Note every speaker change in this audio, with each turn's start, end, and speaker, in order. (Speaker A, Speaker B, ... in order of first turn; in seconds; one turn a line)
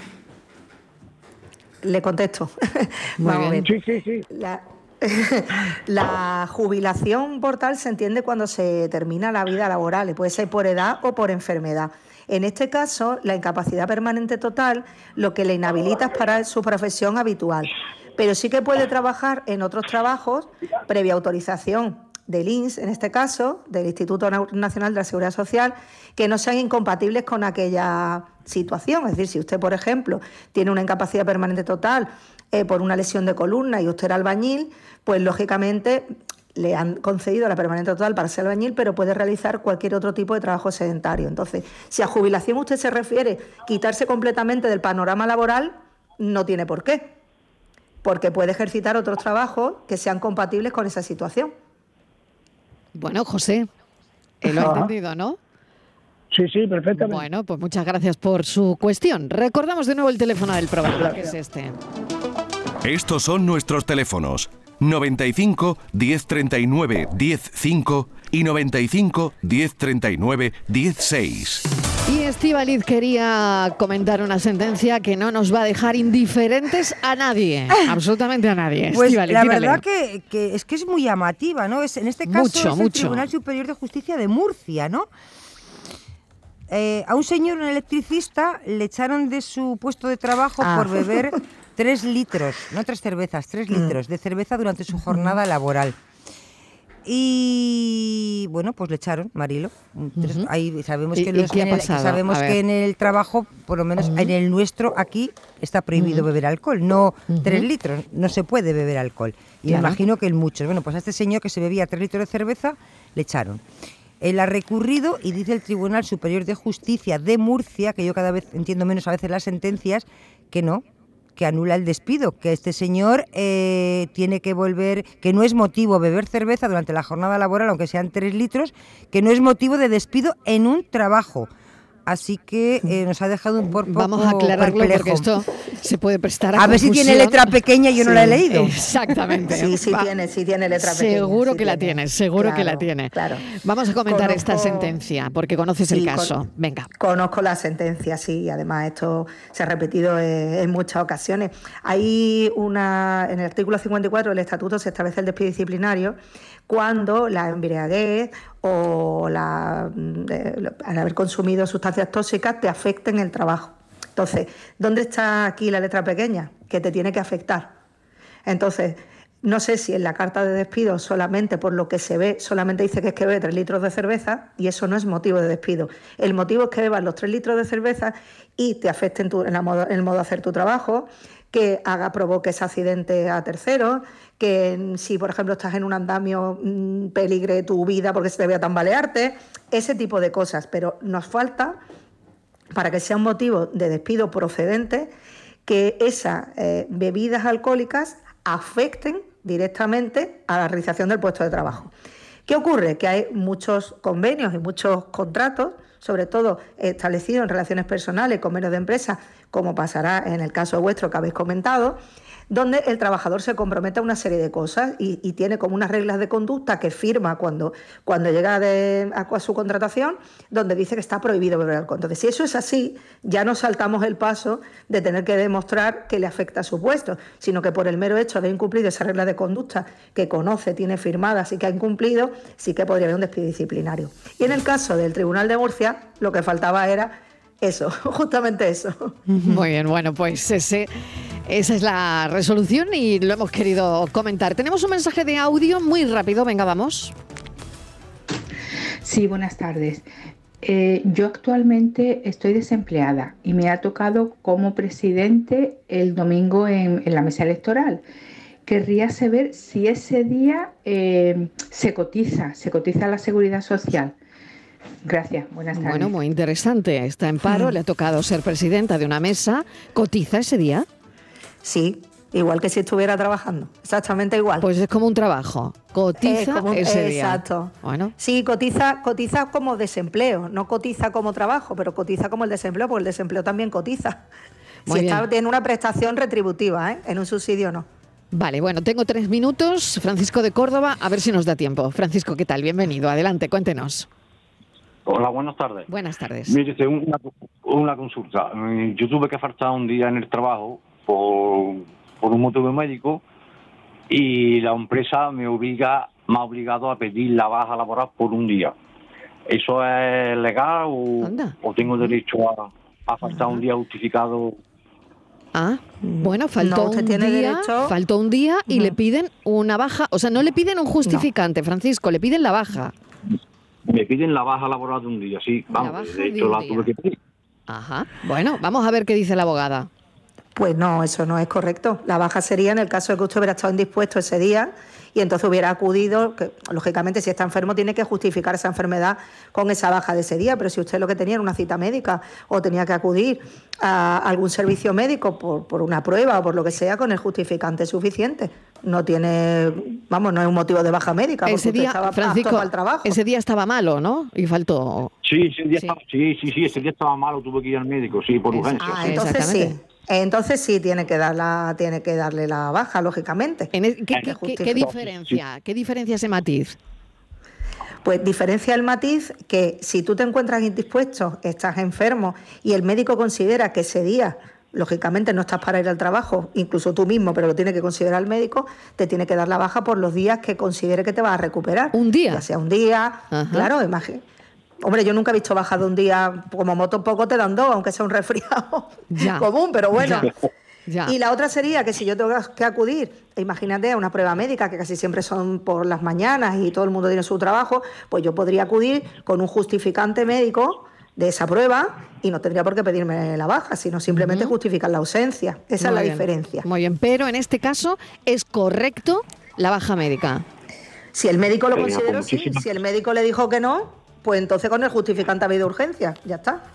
Speaker A: 1.8-3.7
Speaker B: 3.2-3.6
Speaker C: 3.6-4.2
Speaker A: 4.3-47.1
Speaker A: 48.0-51.5
Speaker B: 52.9-53.7
Speaker B: 54.4-55.4
Speaker C: 54.6-54.9
Speaker C: 56.3-57.2
Speaker B: 56.9-61.8
Speaker D: 62.8-71.6
Speaker B: 72.0-79.8
Speaker E: 78.9-85.1
Speaker B: 82.3-83.2
Speaker E: 86.7-95.9
Speaker A: 90.6-91.3
Speaker E: 97.0-113.6
Speaker B: 100.2-100.5
Speaker B: 101.1-102.6
Speaker B: 104.0-104.3
Speaker B: 106.0-106.2
Speaker B: 107.3-107.7
Speaker B: 109.7-110.0
Speaker E: 114.2-120.8
Speaker E: 121.3-131.5
Speaker E: 132.1-135.3
Speaker B: 133.9-137.6
Speaker E: 136.5-138.7
Speaker A: 138.0-138.6
Speaker B: 138.5-140.1
Speaker A: 139.3-143.4
Speaker B: 140.8-146.9
Speaker A: 144.1-144.9
Speaker A: 145.9-146.3
Speaker A: 147.0-156.2
Speaker A: 156.7-167.7
Speaker A: 168.4-191.8
Speaker A: 192.7-195.1
Speaker A: 195.7-201.9
Speaker A: 202.5-212.0
Speaker A: 212.5-239.2
Speaker E: 239.3-239.6
Speaker B: 239.4-240.9
Speaker B: 241.4-247.1
Speaker F: 249.0-250.0
Speaker F: 250.6-258.0
Speaker F: 258.6-264.1
Speaker F: 265.0-266.1
Speaker B: 265.8-270.9
Speaker A: 267.5-267.8
Speaker A: 271.6-274.7
Speaker B: 274.6-278.1
Speaker A: 276.2-284.2
Speaker B: 284.9-285.2
Speaker A: 284.9-287.9
Speaker B: 288.3-294.1
Speaker G: 295.1-295.9
Speaker B: 295.9-296.6
Speaker G: 296.4-303.2
Speaker G: 304.1-308.7
Speaker G: 309.4-314.6
Speaker B: 311.2-311.6
Speaker B: 315.5-322.9
Speaker A: 316.0-317.9
Speaker A: 318.7-318.9
Speaker G: 323.9-327.2
Speaker B: 325.7-326.9
Speaker B: 327.7-329.9
Speaker A: 330.6-353.1
Speaker B: 351.4-355.1
Speaker G: 355.2-359.4
Speaker B: 358.5-359.7
Speaker A: 358.8-364.9
Speaker B: 363.7-366.8
Speaker G: 364.1-365.4
Speaker A: 368.0-384.2
Speaker B: 381.9-382.4
Speaker B: 383.3-383.7
Speaker A: 384.8-390.3
Speaker B: 389.1-389.5
Speaker B: 390.0-390.3
Speaker B: 390.9-391.1
Speaker A: 391.1-406.7
Speaker B: 404.1-404.5
Speaker B: 405.8-410.4
Speaker A: 411.1-416.6
Speaker G: 411.7-412.7